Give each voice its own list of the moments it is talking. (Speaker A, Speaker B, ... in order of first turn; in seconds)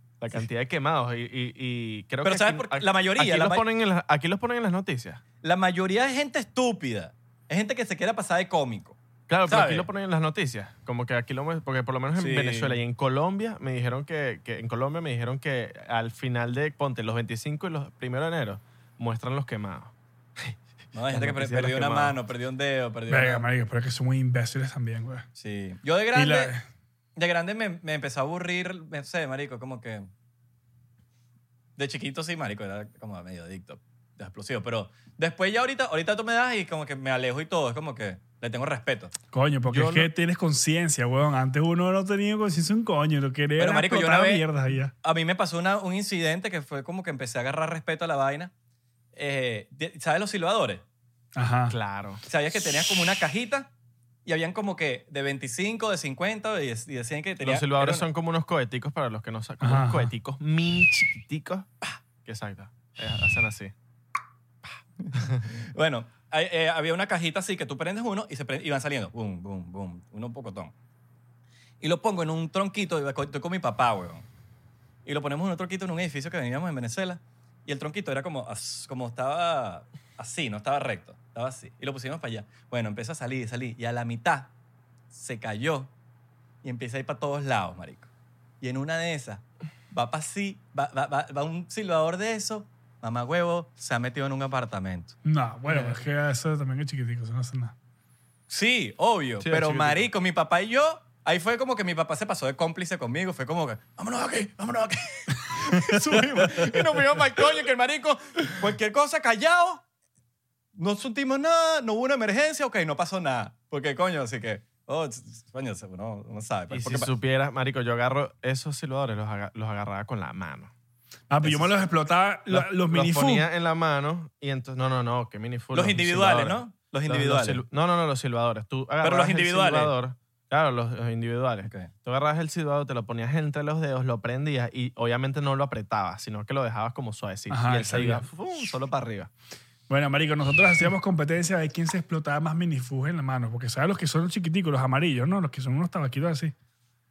Speaker A: 0.2-5.2, 9.3-20.6, 21.1-22.2, 39.7-40.1, 51.7-52.2, 57.4-61.7, 62.2-63.7, 65.2-65.5, 99.4-100.0, 116.7-120.7, 122.5-139.3
Speaker B: 2.2-3.6, 5.4-9.0, 9.5-9.9, 12.2-12.8, 20.9-23.4, 25.4-26.6, 27.2-30.1, 31.8-39.1, 43.6-44.5, 45.0-48.5, 49.1-50.8, 52.3-53.7, 54.2-58.0, 65.0-70.7, 71.8-74.3, 75.0-84.5, 85.1-85.9, 86.6-88.1, 88.6-95.2, 98.5-109.8, 110.8-117.1, 125.7-127.6, 129.0-129.9, 131.6-131.9
Speaker C: 23.1-25.3, 26.1-26.6, 39.3-44.9, 51.4-51.8, 59.6-60.1, 95.2-97.8, 105.4-106.2, 121.3-123.5, 137.5-138.2, 139.9-146.5